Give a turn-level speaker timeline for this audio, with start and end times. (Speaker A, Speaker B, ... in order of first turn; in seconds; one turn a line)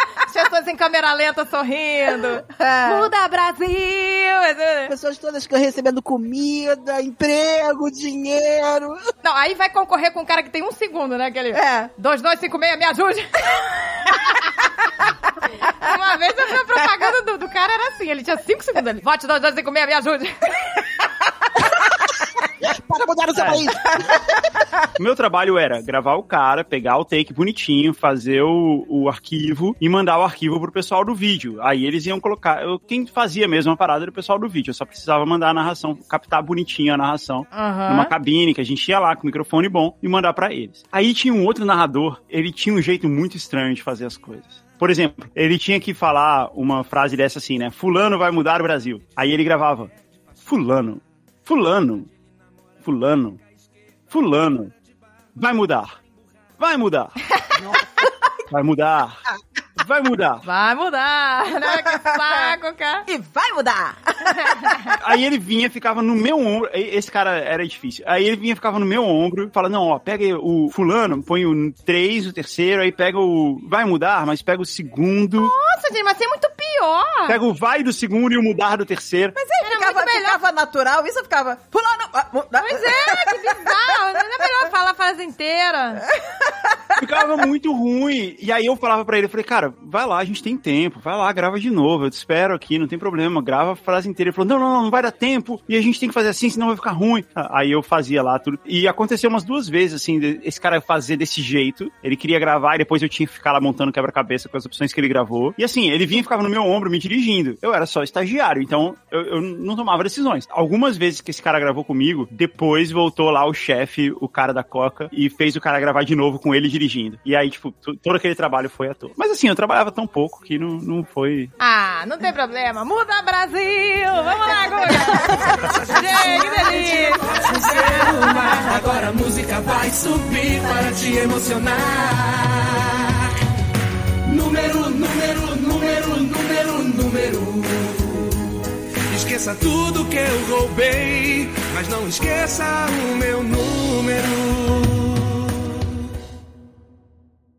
Speaker A: 0.3-4.9
Speaker B: 2.5-3.1
Speaker C: 4.9-9.0
Speaker A: 9.2-14.3
Speaker B: 11.5-11.9
Speaker A: 15.7-20.6
Speaker C: 21.6-24.2
Speaker D: 23.3-23.7
Speaker D: 25.0-49.9
Speaker A: 37.5-38.1
Speaker D: 50.4-52.1
Speaker D: 52.8-53.4
Speaker D: 54.1-54.7
Speaker D: 55.4-55.9
Speaker D: 56.6-57.2
Speaker B: 57.7-58.1
Speaker D: 58.5-59.2
Speaker D: 59.8-60.4
Speaker A: 60.4-63.0
Speaker B: 61.6-62.5
Speaker B: 63.1-65.0
Speaker D: 64.9-75.5
Speaker A: 75.3-77.4
Speaker D: 77.3-79.4
Speaker B: 79.3-83.4
Speaker A: 79.6-80.4
Speaker A: 82.6-86.0
Speaker B: 86.4-86.8
Speaker D: 87.0-121.5
Speaker A: 121.6-128.6
Speaker E: 125.3-133.1
Speaker E: 134.2-138.5
Speaker E: 139.1-145.7